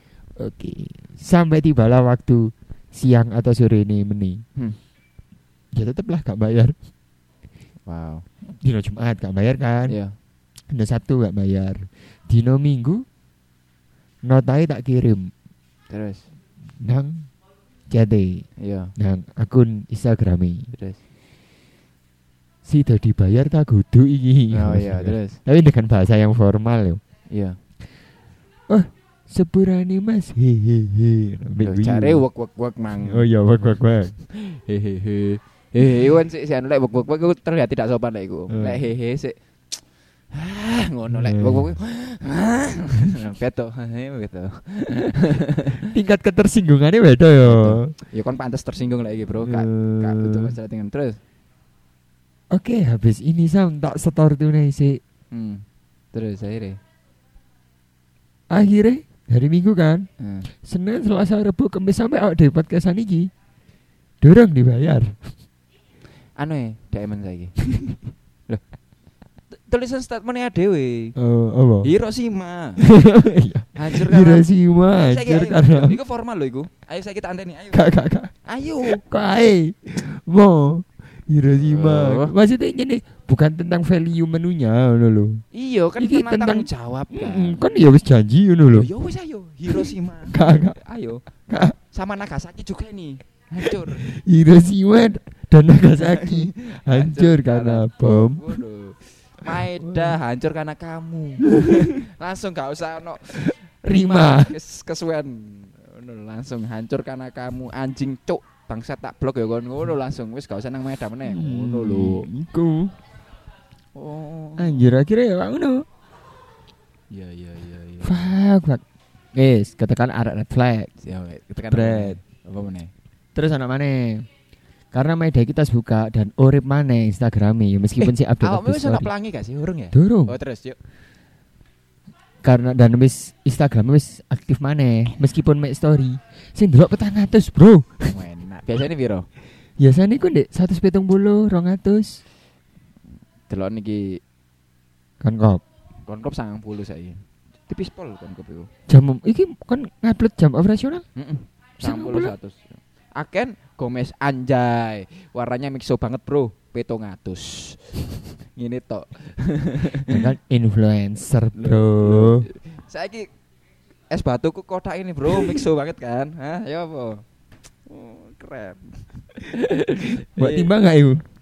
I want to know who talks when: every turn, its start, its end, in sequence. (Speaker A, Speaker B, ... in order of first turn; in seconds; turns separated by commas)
Speaker A: 0.4-4.4, Speaker A: 5.7-6.8, Speaker B: 7.9-8.3, Speaker A: 8.5-10.0, Speaker B: 9.9-10.2, Speaker A: 10.7-13.1, Speaker A: 14.2-15.3, Speaker B: 15.9-16.2, Speaker A: 16.8-17.3, Speaker A: 17.9-20.7, Speaker B: 18.6-18.9, Speaker B: 20.7-21.0, Speaker A: 22.6-27.0, Speaker B: 24.5-25.4, Speaker B: 27.3-27.6, Speaker A: 28.7-32.2, Speaker B: 31.6-33.3, Speaker A: 33.0-34.1, Speaker B: 34.2-45.9, Speaker A: 38.5-38.8, Speaker A: 41.1-41.8, Speaker A: 45.8-47.9, Speaker B: 47.4-51.2, Speaker A: 49.5-50.5, Speaker A: 52.5-55.0, Speaker B: 55.3-56.8, Speaker A: 58.5-63.3, Speaker B: 60.2-60.5, Speaker A: 64.2-65.2, Speaker B: 66.4-67.6, Speaker B: 69.5-71.2, Speaker A: 71.2-71.9, Speaker B: 71.8-72.8, Speaker A: 72.8-76.0, Speaker B: 73.8-79.0, Speaker A: 77.7-78.3, Speaker A: 78.9-85.4, Speaker B: 81.5-82.3, Speaker B: 85.5-87.6, Speaker A: 86.0-88.9, Speaker B: 88.7-91.3, Speaker A: 89.7-90.8, Speaker A: 91.5-91.8, Speaker B: 91.8-94.1, Speaker A: 93.9-98.5, Speaker B: 96.0-112.3, Speaker A: 99.6-100.2, Speaker A: 101.5-102.0, Speaker A: 103.3-104.5, Speaker A: 111.3-113.0, Speaker B: 114.0-114.8, Speaker A: 114.6-115.9, Speaker B: 117.1-118.3, Speaker A: 118.0-118.8, Speaker A: 119.3-120.9, Speaker B: 121.0-122.9, Speaker A: 121.7-122.2, Speaker A: 123.3-124.3, Speaker A: 124.9-129.1, Speaker B: 128.0-130.8, Speaker A: 129.9-130.4, Speaker A: 132.4-138.2, Speaker B: 138.1-139.3, Speaker A: 139.8-142.2, Speaker B: 143.5-144.2, Speaker A: 145.2-145.6, Speaker B: 146.1-148.7, Speaker A: 148.9-151.1, Speaker B: 151.2-160.3, Speaker A: 151.8-152.3, Speaker A: 160.1-162.5, Speaker B: 161.6-163.3, Speaker B: 164.1-167.2, Speaker B: 167.9-170.7, Speaker A: 170.3-171.2